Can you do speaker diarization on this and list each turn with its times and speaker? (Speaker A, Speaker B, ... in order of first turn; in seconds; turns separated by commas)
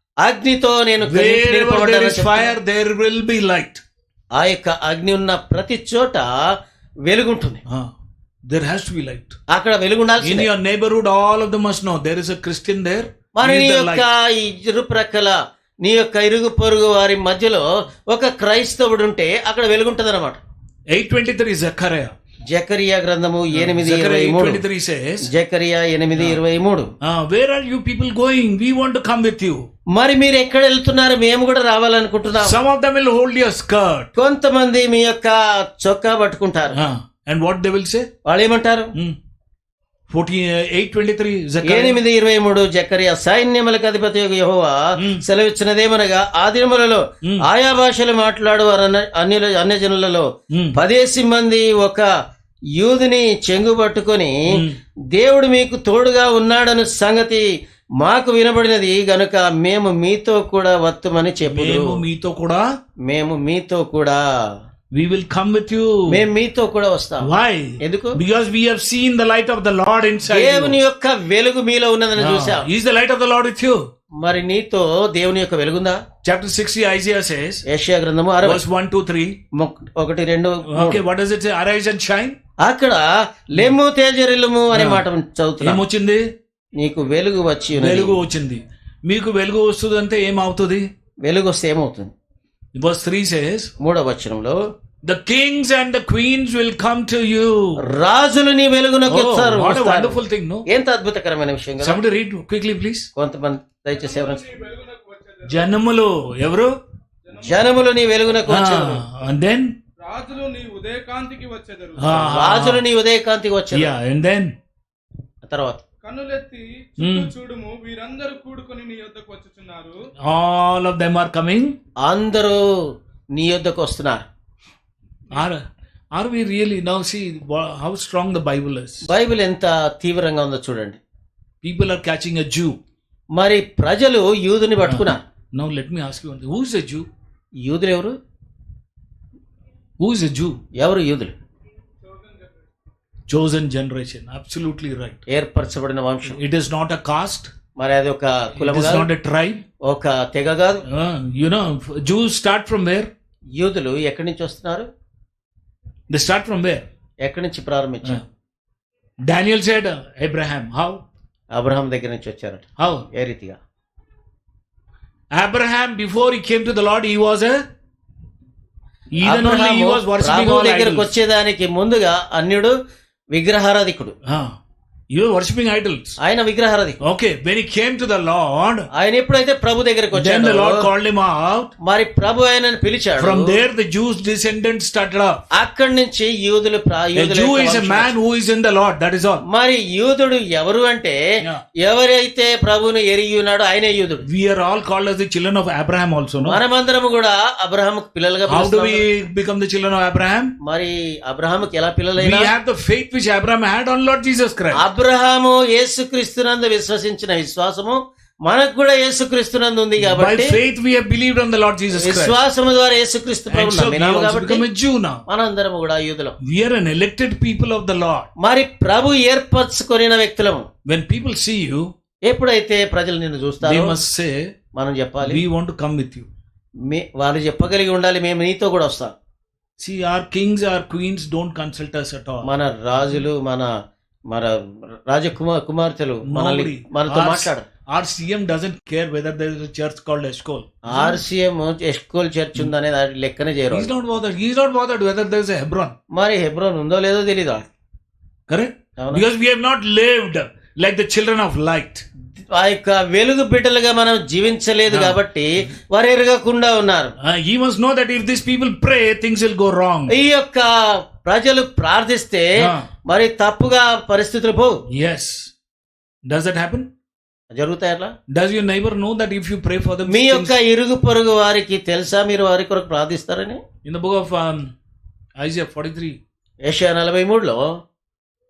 Speaker A: 0.2-2.5, Speaker B: 1.1-3.8, Speaker A: 4.3-6.3, Speaker A: 7.1-7.6, Speaker B: 8.5-9.4, Speaker A: 9.5-10.5, Speaker B: 10.2-14.1, Speaker A: 13.3-20.4, Speaker B: 20.9-22.1, Speaker A: 22.5-24.6, Speaker B: 23.5-25.3, Speaker A: 25.2-26.9, Speaker B: 26.1-26.4, Speaker B: 27.0-29.7, Speaker A: 29.9-32.6, Speaker B: 32.4-34.1, Speaker A: 34.1-36.8, Speaker B: 36.8-38.1, Speaker A: 38.2-38.9, Speaker B: 40.1-42.0, Speaker A: 41.6-52.1, Speaker B: 45.0-45.2, Speaker B: 47.2-47.5, Speaker B: 50.5-50.8, Speaker A: 52.8-54.4, Speaker B: 54.5-54.8, Speaker A: 55.1-57.5, Speaker A: 58.0-62.0, Speaker B: 61.5-62.7, Speaker A: 63.0-64.2, Speaker B: 64.9-66.2, Speaker A: 66.1-68.2, Speaker B: 67.2-70.8, Speaker A: 70.3-72.7, Speaker B: 72.2-73.8, Speaker A: 74.2-76.0, Speaker B: 76.2-77.6, Speaker A: 77.7-78.6, Speaker B: 78.4-79.4, Speaker A: 79.5-81.0, Speaker B: 80.7-82.4, Speaker A: 82.6-85.8, Speaker B: 84.7-85.0, Speaker B: 85.6-86.2, Speaker A: 86.8-88.2, Speaker B: 87.8-90.9, Speaker A: 91.2-92.1, Speaker B: 92.8-93.7, Speaker A: 93.8-94.6, Speaker B: 95.0-97.8, Speaker A: 97.8-102.0, Speaker B: 99.1-100.7, Speaker B: 101.8-103.1, Speaker A: 103.2-104.5, Speaker C: 104.0-105.7, Speaker B: 105.5-106.7, Speaker C: 107.3-107.7, Speaker A: 107.4-109.0, Speaker B: 108.5-109.7, Speaker C: 110.0-112.2, Speaker B: 112.0-112.8, Speaker A: 112.1-113.9, Speaker B: 113.7-114.5, Speaker A: 115.4-115.8, Speaker C: 116.0-120.0, Speaker B: 117.0-117.3, Speaker B: 120.2-121.8, Speaker A: 122.0-122.6, Speaker A: 123.3-124.2, Speaker B: 125.3-125.6, Speaker B: 126.1-129.1, Speaker A: 129.1-131.0, Speaker B: 131.6-132.8, Speaker A: 133.3-135.2, Speaker B: 134.8-137.1, Speaker A: 137.6-138.2, Speaker B: 140.0-140.6, Speaker A: 140.8-141.3, Speaker C: 142.1-142.4, Speaker B: 143.3-145.2, Speaker A: 145.3-146.4, Speaker B: 146.3-147.5, Speaker A: 147.8-149.1, Speaker B: 148.6-149.6, Speaker A: 149.8-150.8, Speaker B: 150.9-153.1, Speaker A: 153.6-154.9, Speaker B: 156.1-156.8, Speaker A: 157.2-158.2, Speaker B: 159.2-161.0, Speaker A: 161.5-163.6, Speaker B: 162.8-163.1, Speaker B: 165.3-167.6, Speaker B: 169.1-171.1, Speaker A: 169.2-172.7, Speaker A: 173.3-174.1, Speaker B: 174.2-174.6, Speaker B: 175.1-176.2, Speaker A: 176.2-177.0, Speaker B: 177.0-178.9, Speaker A: 178.9-180.9, Speaker B: 180.1-181.7, Speaker A: 181.8-183.6, Speaker B: 183.2-185.4, Speaker A: 185.5-188.1, Speaker B: 187.2-189.4, Speaker A: 189.5-191.2, Speaker A: 191.8-194.3, Speaker B: 194.3-196.6, Speaker A: 196.4-199.0, Speaker B: 198.5-200.5, Speaker A: 200.6-202.5, Speaker B: 202.2-204.8, Speaker A: 204.7-210.6, Speaker B: 210.0-212.4, Speaker A: 211.9-214.7, Speaker B: 213.5-215.2, Speaker A: 215.3-216.4, Speaker B: 216.4-218.3, Speaker A: 218.4-220.7, Speaker B: 220.9-221.9, Speaker A: 222.3-224.0, Speaker B: 223.6-224.4, Speaker A: 224.8-225.4, Speaker B: 225.2-226.3, Speaker A: 226.9-229.1, Speaker B: 229.8-232.5, Speaker A: 232.4-233.7, Speaker A: 234.3-237.7, Speaker B: 236.3-241.2, Speaker A: 240.8-243.9, Speaker B: 243.7-245.9, Speaker A: 246.1-247.7, Speaker B: 248.5-252.1, Speaker A: 249.0-249.2, Speaker A: 252.5-257.2, Speaker B: 254.9-255.2, Speaker B: 257.2-260.1, Speaker A: 260.1-262.5, Speaker B: 262.6-262.9, Speaker A: 263.1-264.8, Speaker B: 264.9-265.5, Speaker B: 266.3-266.9, Speaker A: 267.5-268.1, Speaker B: 268.3-270.6, Speaker A: 270.1-273.6, Speaker B: 273.8-274.7, Speaker B: 275.4-276.2, Speaker A: 276.6-277.8